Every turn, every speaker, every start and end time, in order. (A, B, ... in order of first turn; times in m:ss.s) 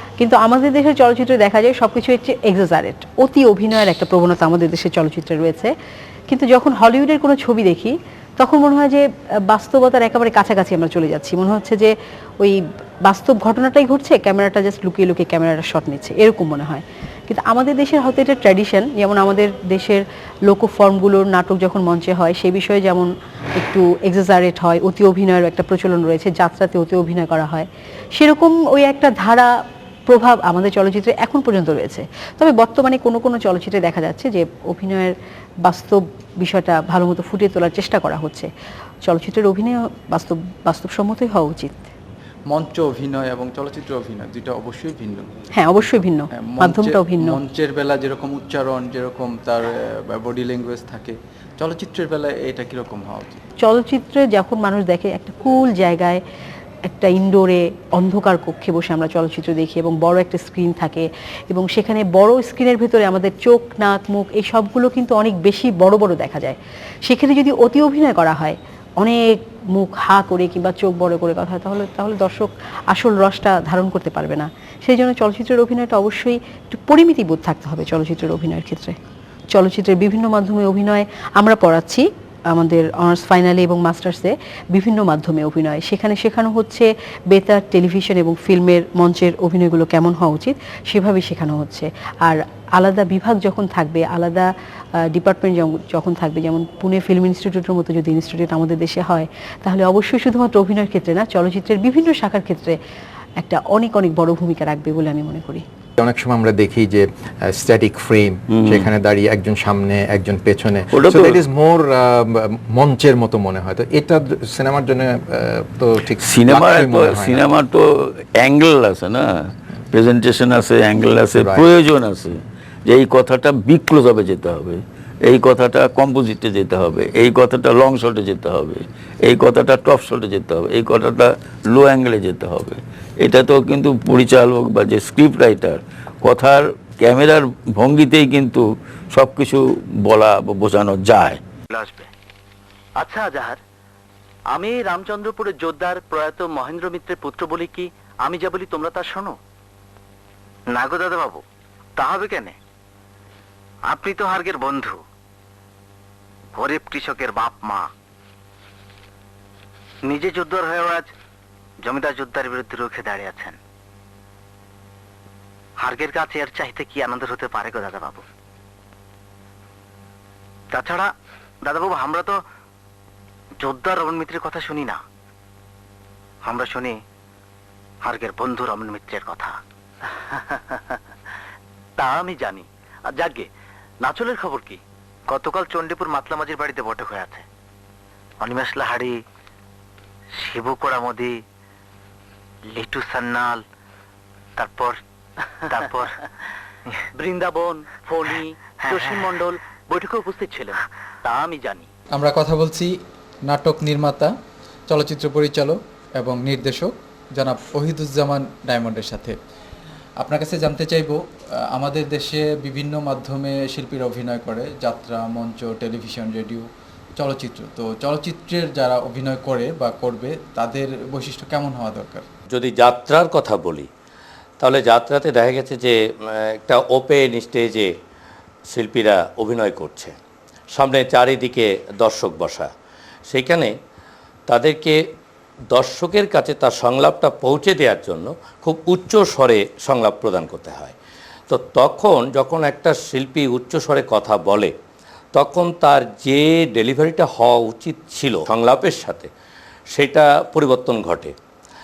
0:00.2-0:05.7 A
0:06.3-0:29.5 A
0:30.1-0:35.1 A
0:35.6-0:38.5 A
0:39.0-0:41.9 A
0:42.5-0:45.3 B
0:45.6-0:47.4 A
0:46.4-0:53.4 B
0:53.6-0:56.2 A
0:56.8-1:19.0 A
1:19.5-1:34.5 A
1:35.0-1:42.8 A
1:43.4-1:45.6 A
1:46.0-1:57.4 C
1:48.5-1:48.9 D
1:50.9-1:51.4 D
1:56.2-2:21.4 D
2:01.3-2:01.7 C
2:21.7-2:22.1 E
2:23.0-2:23.6 E
2:24.5-2:29.4 E
2:30.7-2:31.4 E
2:32.0-2:32.6 E
2:33.9-2:35.0 E
2:36.6-2:37.9 E
2:40.1-2:41.1 E
2:41.8-2:43.6 E
2:45.8-2:48.2 E
2:50.7-2:51.1 E
2:51.6-2:52.4 E
2:53.6-2:55.0 E
2:56.5-2:57.0 E
2:58.0-2:59.6 E
3:00.3-3:01.0 E
3:02.0-3:03.5 E
3:04.0-3:07.4 E
3:08.4-3:09.2 E
3:10.4-3:11.4 E
3:12.7-3:13.6 E
3:14.6-3:15.0 E
3:15.6-3:16.2 E
3:17.2-3:21.9 E
3:22.1-3:22.9 B
3:23.5-3:24.3 B
3:24.9-3:29.4 B
3:30.2-3:31.2 B
3:31.7-3:42.2 B
3:42.5-3:43.9 F
3:44.6-3:47.9 F
3:48.7-3:50.1 F
3:50.7-3:52.7 F
3:53.3-3:53.7 F
3:54.5-3:55.0 F
3:55.7-4:00.9 F
4:01.5-4:04.7 F
4:05.3-4:09.3 F
4:09.9-4:11.3 F